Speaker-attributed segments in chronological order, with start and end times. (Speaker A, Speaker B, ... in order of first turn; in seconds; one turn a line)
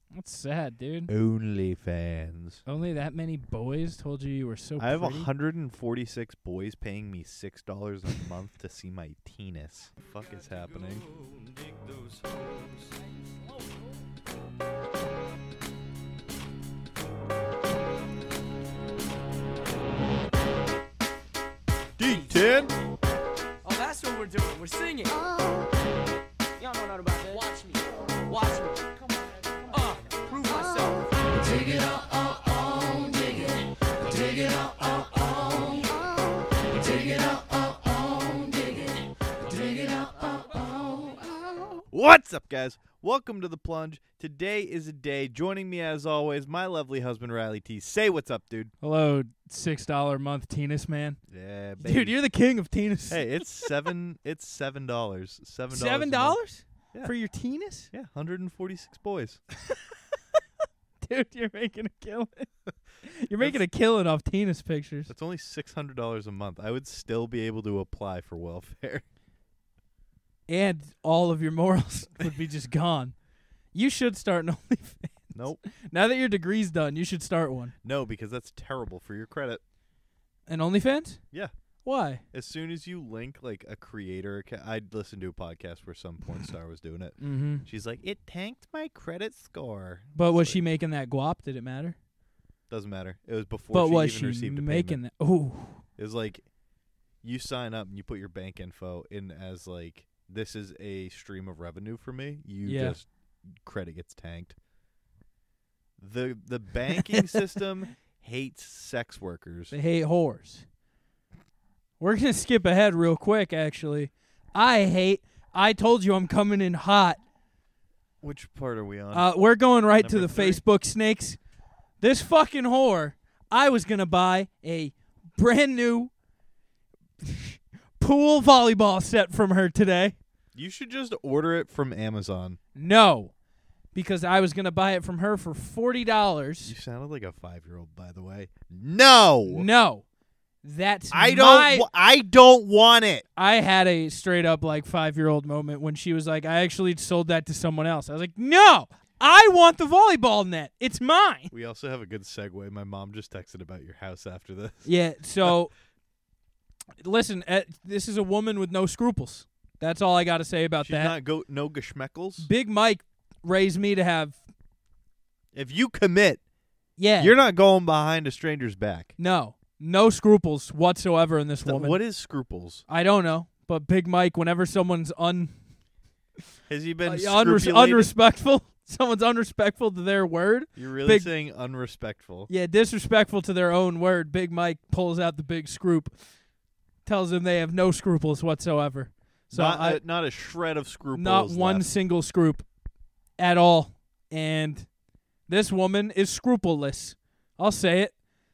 Speaker A: 0.1-1.1
Speaker B: 1.1-2.6
Speaker A: 2.7-5.3
Speaker B: 4.8-11.1
Speaker B: 22.0-22.7
Speaker C: 23.6-25.2
Speaker C: 26.6-29.0
Speaker C: 29.7-41.5
Speaker B: 41.9-48.7
Speaker A: 48.8-51.2
Speaker B: 51.3-52.2
Speaker A: 51.8-53.7
Speaker B: 53.1-56.4
Speaker A: 55.7-57.9
Speaker B: 57.9-59.4
Speaker A: 59.6-60.0
Speaker A: 61.0-65.1
Speaker B: 65.1-69.0
Speaker A: 70.5-73.2
Speaker A: 73.7-77.7
Speaker B: 75.3-75.6
Speaker B: 77.8-79.6
Speaker A: 80.5-81.2
Speaker A: 81.8-82.2
Speaker B: 82.3-90.6
Speaker A: 87.2-87.7
Speaker A: 90.1-92.0
Speaker B: 92.7-95.0
Speaker A: 93.7-95.8
Speaker B: 96.0-96.5
Speaker B: 97.2-104.5
Speaker A: 102.6-103.0
Speaker B: 106.0-109.8
Speaker A: 109.7-110.7
Speaker A: 112.0-117.2
Speaker B: 118.2-119.3
Speaker A: 119.1-121.4
Speaker B: 120.0-120.6
Speaker A: 122.0-126.1
Speaker A: 127.2-130.2
Speaker B: 130.6-132.6
Speaker A: 132.8-133.3
Speaker A: 133.9-136.7
Speaker B: 136.7-139.7
Speaker A: 139.5-140.0
Speaker A: 140.6-141.9
Speaker B: 141.1-143.2
Speaker A: 143.4-151.5
Speaker B: 151.5-154.9
Speaker A: 154.8-155.7
Speaker A: 157.0-161.1
Speaker B: 160.8-162.5
Speaker A: 162.4-164.4
Speaker B: 165.5-166.4
Speaker A: 167.0-167.3
Speaker B: 167.2-169.1
Speaker A: 169.2-172.0
Speaker B: 171.6-172.8
Speaker A: 172.9-175.5
Speaker B: 176.7-178.1
Speaker A: 177.1-181.3
Speaker B: 180.8-182.5
Speaker A: 182.5-186.2
Speaker A: 187.1-190.0
Speaker B: 189.5-191.8
Speaker A: 191.1-192.7
Speaker A: 193.4-194.9
Speaker A: 195.5-198.1